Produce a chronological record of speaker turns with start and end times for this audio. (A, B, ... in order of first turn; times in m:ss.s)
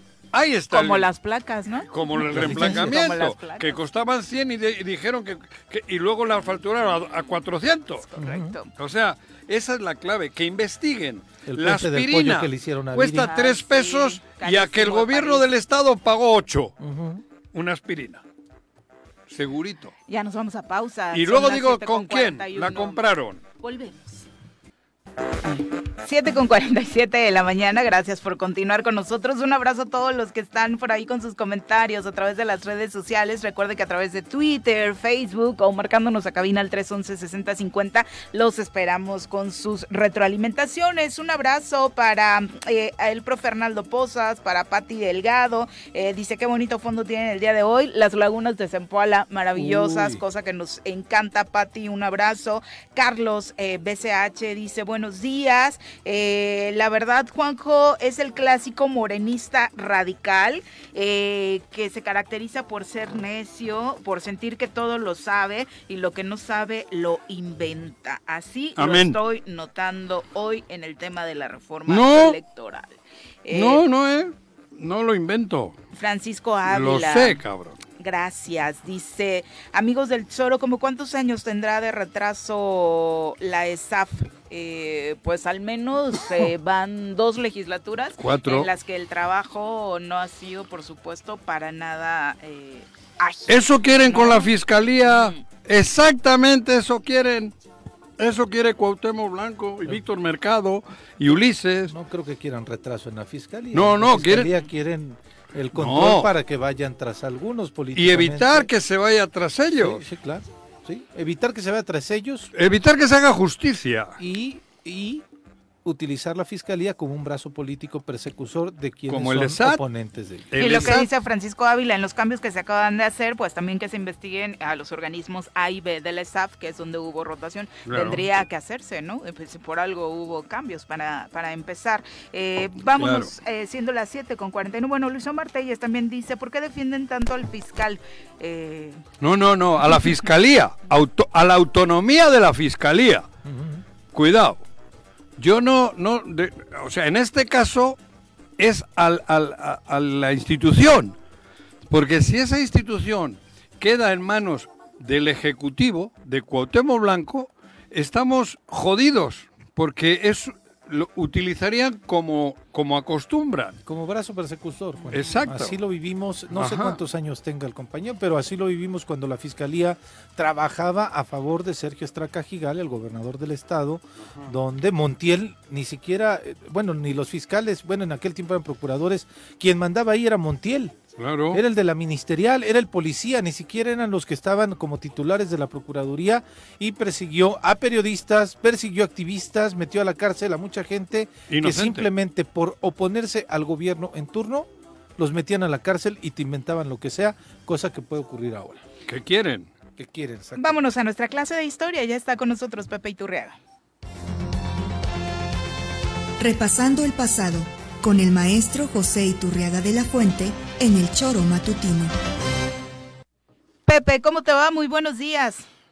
0:00.3-0:01.1 A
0:00.7-0:03.8 B
0:01.9-0:08.0 A
0:02.3-0:03.0 C
0:08.0-0:08.7 B
0:08.2-0:08.6 C
0:08.8-0:16.8 A
0:11.5-0:13.4 C
0:13.2-0:15.4 B
0:16.8-0:17.2 C
0:17.5-0:18.2 A
0:19.3-0:19.9 A
0:20.1-0:23.0 B
0:21.1-0:23.4 A
0:23.6-0:24.3 B
0:26.0-1:13.8 B
0:49.6-0:50.2 C
1:08.8-1:09.2 A
1:11.9-1:12.4 A
1:13.5-1:15.8 A
1:15.9-1:17.4 B
1:16.7-1:17.8 A
1:18.0-1:34.5 B
1:28.2-1:28.7 A
1:33.5-1:37.6 A
1:35.0-1:35.4 B
1:38.2-1:41.9 A
1:41.9-1:48.7 C
1:43.7-1:44.6 A
1:45.7-1:46.3 A
1:48.0-1:50.0 A
1:49.8-1:52.5 C
1:52.6-1:54.2 A
1:54.2-1:55.2 C
1:55.8-2:01.0 C
1:59.1-1:59.8 A
2:00.5-2:01.1 A
2:00.6-2:19.0 B
2:07.9-2:08.2 A
2:13.0-2:13.3 A
2:19.2-2:23.3 A
2:23.4-2:23.8 C
2:24.1-2:24.6 A
2:25.4-2:28.0 A
2:28.6-2:31.2 A
2:31.9-2:43.8 A
2:43.9-3:01.0 C
2:45.1-2:45.8 A
2:46.5-2:47.0 A
3:01.2-3:01.6 A
3:01.5-3:18.8 C
3:11.5-3:12.1 A
3:19.1-3:19.7 A
3:20.0-3:20.8 C
3:20.6-3:23.6 B
3:26.4-3:32.1 D
3:33.9-3:35.7 B